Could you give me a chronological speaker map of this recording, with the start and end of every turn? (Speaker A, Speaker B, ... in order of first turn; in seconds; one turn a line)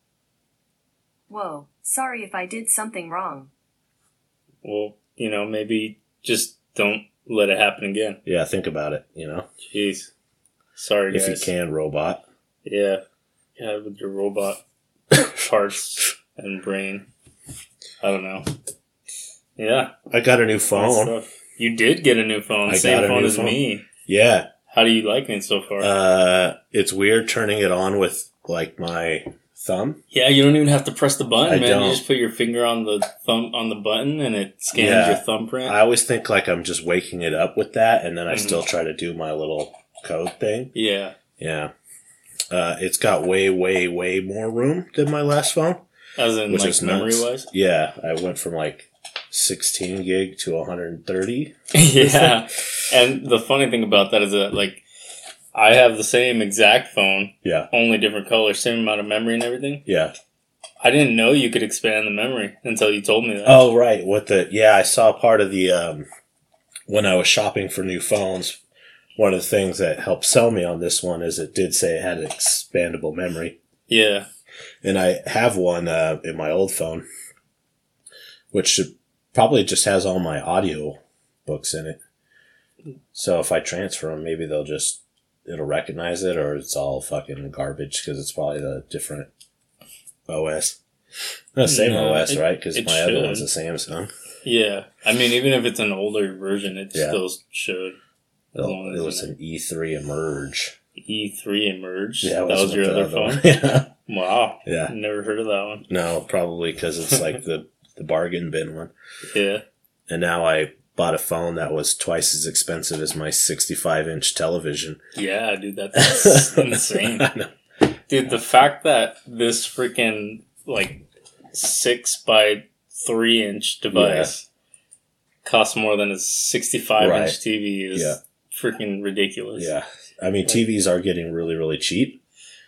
Speaker A: 1.3-3.5
Speaker B: 4.6-8.2
Speaker C: 8.2-9.5
Speaker B: 9.6-10.1
Speaker B: 10.7-11.5
Speaker C: 11.1-12.2
Speaker B: 12.6-13.0
Speaker B: 13.6-14.6
Speaker B: 15.1-17.1
Speaker B: 18.0-18.5
Speaker B: 19.6-19.9
Speaker C: 20.1-21.1
Speaker B: 20.7-23.8
Speaker C: 22.7-24.5
Speaker B: 24.7-25.9
Speaker C: 25.8-30.0
Speaker B: 30.1-35.8
Speaker C: 31.4-32.0
Speaker C: 34.7-40.7
Speaker B: 38.3-38.6
Speaker B: 40.7-41.1
Speaker C: 41.4-41.7
Speaker C: 42.5-45.8
Speaker B: 46.2-47.5
Speaker C: 46.5-52.4
Speaker B: 51.7-54.8
Speaker B: 55.5-59.8
Speaker C: 57.4-57.7
Speaker C: 59.9-60.1
Speaker B: 60.8-63.7
Speaker C: 63.4-66.1
Speaker C: 66.9-68.6
Speaker C: 69.2-73.6
Speaker B: 73.9-74.3
Speaker C: 74.8-77.0
Speaker C: 78.5-82.0
Speaker C: 83.1-89.3
Speaker C: 90.3-90.8
Speaker C: 91.5-94.1
Speaker B: 91.6-93.5
Speaker B: 94.4-98.0
Speaker C: 96.9-97.2
Speaker B: 98.5-99.3
Speaker C: 98.5-100.7
Speaker B: 101.0-105.8
Speaker C: 102.2-103.9
Speaker C: 104.7-104.9
Speaker C: 105.9-108.9
Speaker B: 109.3-109.6
Speaker C: 110.1-115.0
Speaker B: 115.1-117.3
Speaker C: 116.0-117.5
Speaker B: 118.1-124.5
Speaker C: 123.9-124.3
Speaker B: 125.4-129.7
Speaker C: 127.0-127.4
Speaker C: 127.9-128.2
Speaker C: 129.6-132.2